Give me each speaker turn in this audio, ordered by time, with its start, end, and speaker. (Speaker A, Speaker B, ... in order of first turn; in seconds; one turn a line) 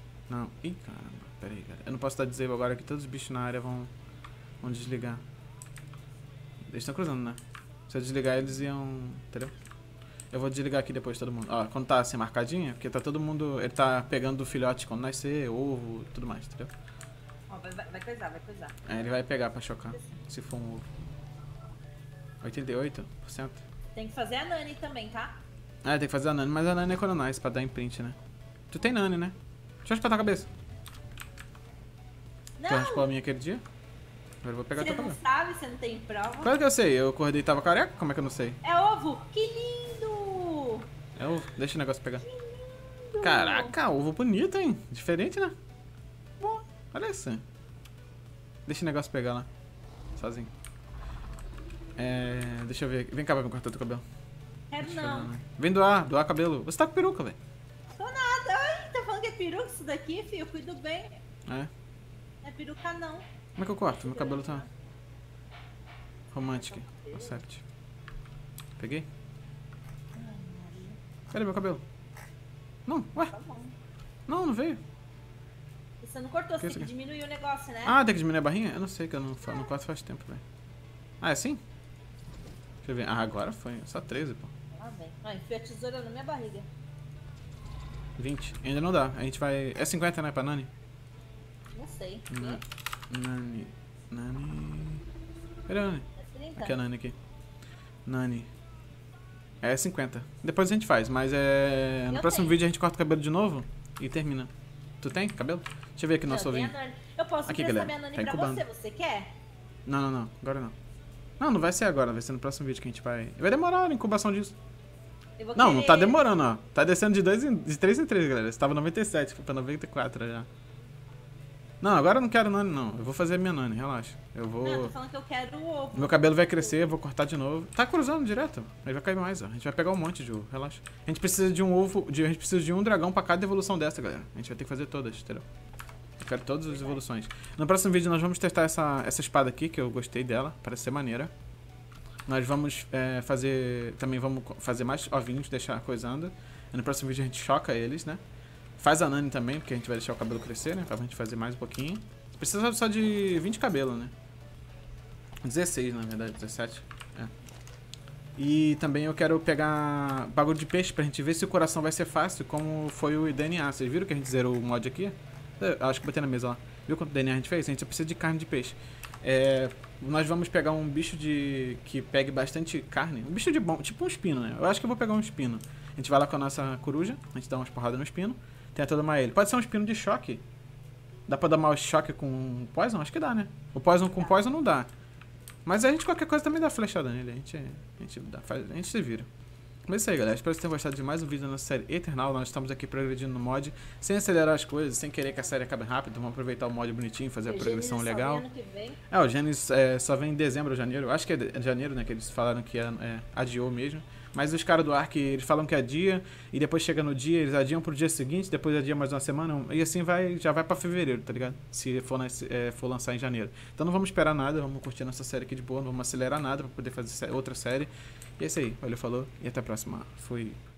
Speaker A: 0.3-3.9
Speaker A: 4.6-5.2
Speaker A: 6.7-9.5
Speaker A: 10.3-16.7
Speaker B: 17.5-19.1
Speaker A: 18.9-20.9
Speaker A: 22.4-23.6
Speaker B: 23.9-25.4
Speaker A: 25.8-28.2
Speaker A: 28.7-30.5
Speaker B: 32.6-33.1
Speaker A: 32.7-33.6
Speaker A: 34.4-35.2
Speaker B: 34.8-36.5
Speaker A: 36.4-38.6
Speaker B: 38.6-40.9
Speaker A: 41.2-42.3
Speaker B: 42.2-43.8
Speaker A: 43.2-45.5
Speaker A: 46.4-47.4
Speaker A: 48.7-49.5
Speaker A: 50.2-50.5
Speaker A: 52.0-54.0
Speaker B: 54.7-55.3
Speaker A: 54.8-57.4
Speaker B: 57.9-61.2
Speaker B: 62.4-63.3
Speaker A: 63.6-64.7
Speaker B: 64.0-64.7
Speaker A: 66.3-67.6
Speaker B: 66.4-67.4
Speaker A: 68.8-69.1
Speaker B: 70.2-71.0
Speaker A: 71.3-71.8
Speaker A: 72.9-73.3
Speaker B: 73.2-73.8
Speaker A: 74.3-74.8
Speaker B: 76.0-78.0
Speaker A: 76.6-76.9
Speaker A: 77.8-80.4
Speaker A: 81.2-81.6
Speaker A: 82.8-84.5
Speaker B: 84.7-86.7
Speaker A: 88.2-90.7
Speaker B: 91.7-92.6
Speaker A: 92.3-95.0
Speaker A: 95.7-97.2
Speaker B: 96.2-96.8
Speaker A: 98.1-98.5
Speaker A: 99.6-106.7
Speaker B: 102.1-102.6
Speaker B: 106.3-109.3
Speaker A: 107.5-108.6
Speaker A: 109.9-110.8
Speaker A: 111.4-114.6
Speaker B: 115.4-116.2
Speaker A: 115.6-120.5
Speaker A: 121.8-124.9
Speaker B: 124.6-126.9
Speaker A: 125.9-135.4
Speaker A: 136.2-141.3
Speaker B: 136.7-137.0
Speaker A: 142.3-148.2
Speaker A: 148.8-154.1
Speaker A: 155.4-157.3
Speaker A: 158.4-180.4
Speaker A: 181.3-184.9
Speaker A: 185.7-189.3
Speaker A: 189.9-198.5
Speaker B: 197.5-199.0
Speaker A: 199.1-220.6